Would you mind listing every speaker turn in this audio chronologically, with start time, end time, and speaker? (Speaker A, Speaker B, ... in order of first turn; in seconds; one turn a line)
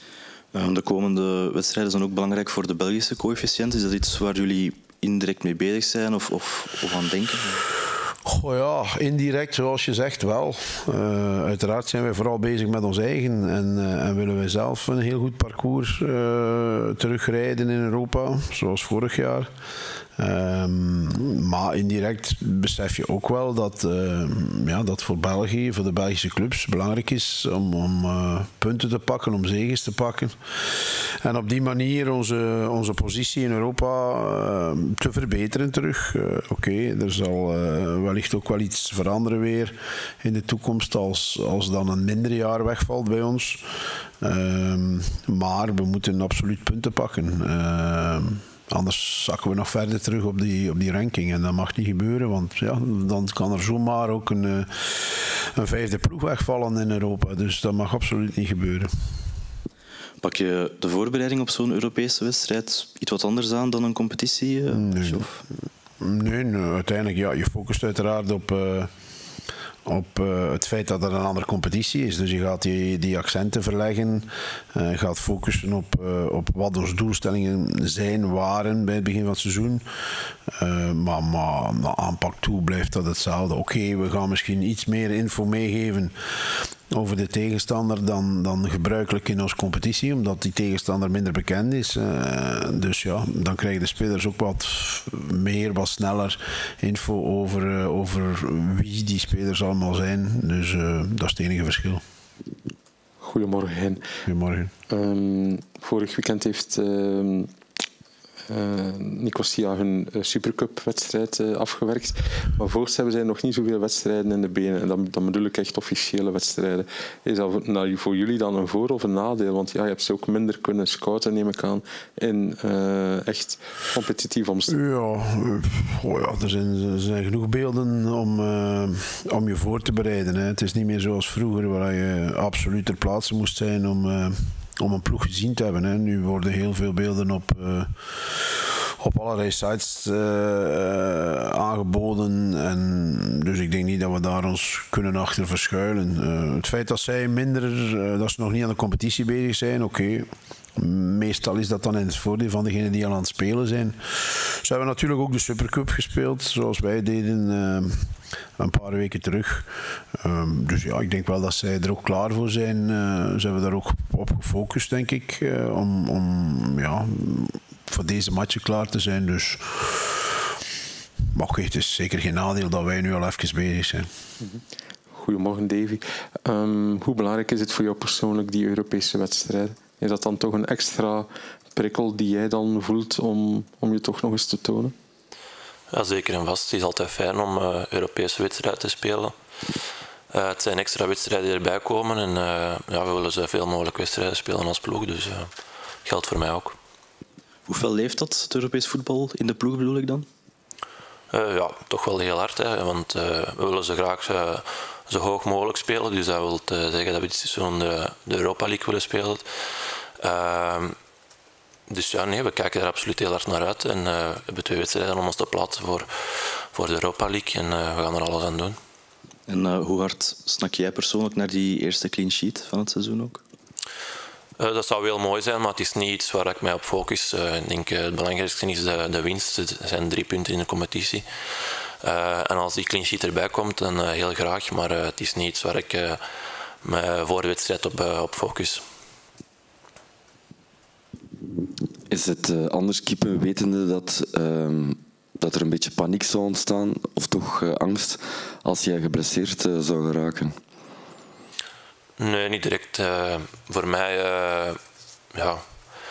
Speaker A: 0.5-7.6
Speaker B: 8.3-19.5
Speaker B: 20.2-30.3
Speaker B: 31.0-43.6
Speaker B: 44.2-58.9
Speaker A: 60.2-65.4
Speaker B: 64.7-65.3
Speaker B: 66.0-68.9
Speaker B: 69.9-79.8
Speaker B: 80.5-86.1
Speaker B: 86.9-102.0
Speaker C: 103.2-104.0
Speaker B: 104.2-104.7
Speaker C: 104.9-107.5
Speaker C: 108.5-124.7
Speaker B: 124.7-158.1
Speaker B: 158.6-170.2
Speaker B: 171.3-174.1
Speaker C: 175.1-184.9
Speaker D: 185.9-189.3
Speaker D: 190.3-195.5
Speaker D: 196.1-196.8
Speaker A: 197.7-200.3
Speaker D: 201.3-210.9
Speaker D: 211.9-218.8
Speaker A: 219.5-223.4
Speaker D: 224.6-236.2
Speaker D: 236.8-238.8
Speaker E: 242.1-250.5
Speaker D: 252.2-254.8
Speaker D: 255.3-255.6